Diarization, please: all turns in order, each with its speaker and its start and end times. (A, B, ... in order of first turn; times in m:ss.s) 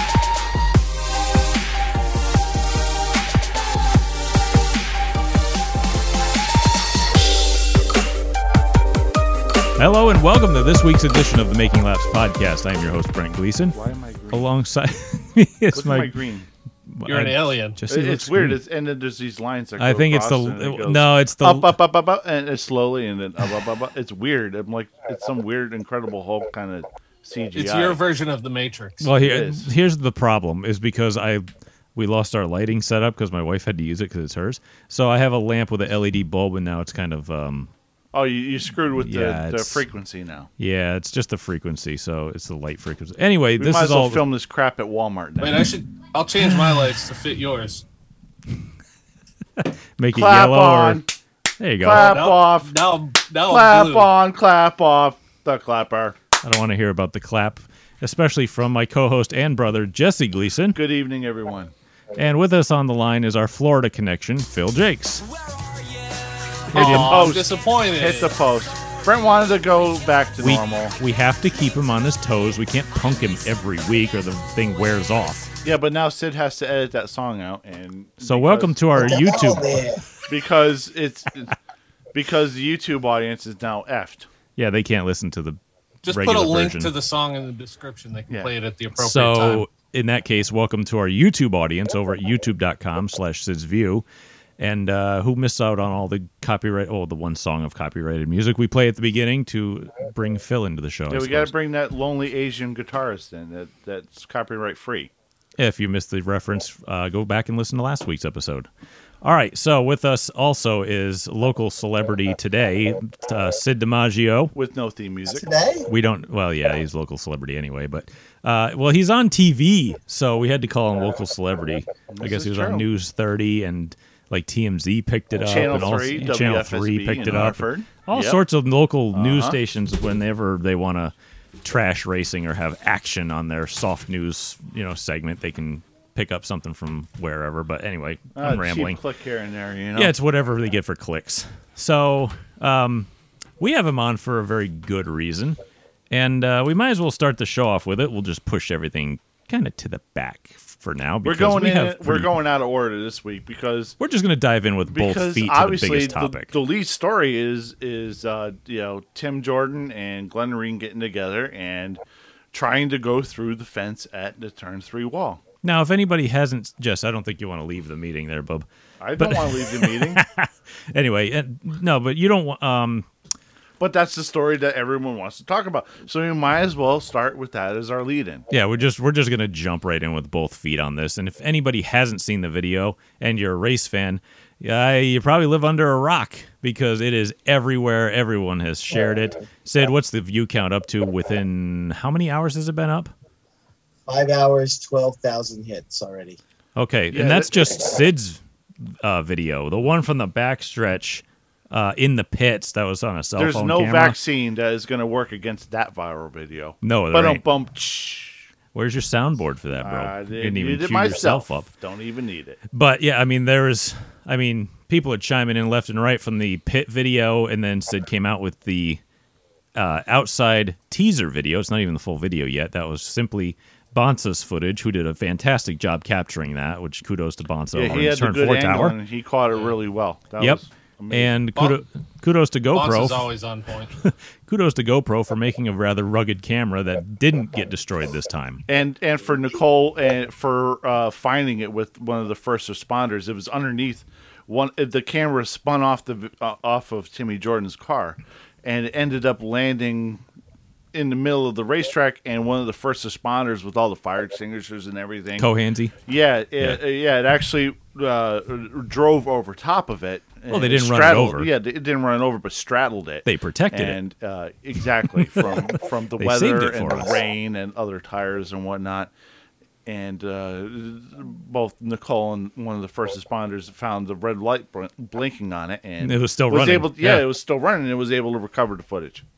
0:09.8-0:13.8 A
0:13.7-0:14.5 B
0:14.3-0:16.2 A
0:15.7-0:16.5 B
0:16.9-0:18.6 A
0:17.0-0:17.8 C
0:17.9-0:28.0 B
0:19.8-0:21.7 A
0:27.5-0:29.1 C
0:29.0-0:37.7 A
0:29.2-0:29.7 B
0:38.1-0:40.5 B
0:39.0-0:39.8 A
0:40.6-0:44.2 A
0:43.6-0:45.7 B
0:45.4-0:47.8 C
0:49.6-0:51.0 A
0:50.1-0:51.1 B
0:51.6-0:52.2 A
0:51.8-0:52.7 B
0:51.9-0:54.1 C
0:53.5-0:56.2 B
0:56.4-1:00.8 A
1:00.7-1:01.7 B
1:02.2-1:05.3 A
1:06.7-1:07.3 A
1:06.7-1:08.3 C
1:06.8-1:11.0 B
1:10.4-1:15.5 A
1:15.6-1:19.1 B
1:18.2-1:19.7 A
1:18.9-1:20.0 D
1:20.3-1:21.6 B
1:22.1-1:24.3 B
1:24.6-1:26.9 A
1:26.0-1:29.6 C
1:29.0-1:34.0 A
1:34.6-1:41.5 A
1:41.1-1:45.1 B
1:45.6-1:48.7 A
1:49.2-1:54.5 A
1:54.5-1:55.5 B
1:55.2-1:55.9 D
1:55.9-2:19.0 A
2:02.1-2:02.8 B
2:05.4-2:08.4 B
2:09.1-2:09.6 B
2:18.4-2:20.1 B
2:19.9-2:25.6 A
2:26.1-2:32.3 A
2:31.2-2:34.0 B
2:34.0-2:36.5 A
2:34.9-2:42.0 B
2:42.5-2:45.4 B
2:45.6-2:48.6 A
2:49.0-2:50.2 B
2:49.2-2:53.1 A
2:53.8-2:58.4 B
2:58.5-3:13.1 A
3:14.0-3:16.4 D
3:16.8-3:24.2 A
3:17.1-3:17.8 B
3:23.4-3:28.4 B
3:26.8-3:27.4 A
3:28.7-3:31.7 A
3:29.8-3:32.6 B
3:32.7-3:39.0 A
3:39.7-3:49.0 A
3:47.7-3:51.4 B
3:50.4-3:53.3 A
3:52.7-3:53.9 C
3:54.0-3:58.6 A
3:58.7-4:10.2 B
4:10.9-4:15.5 B
4:15.4-4:15.9 A
4:16.0-4:29.1 B
4:20.5-4:21.5 A
4:23.2-4:24.0 A
4:25.3-4:25.7 A
4:26.2-4:27.1 A
4:29.8-4:39.2 B
4:36.0-4:37.2 A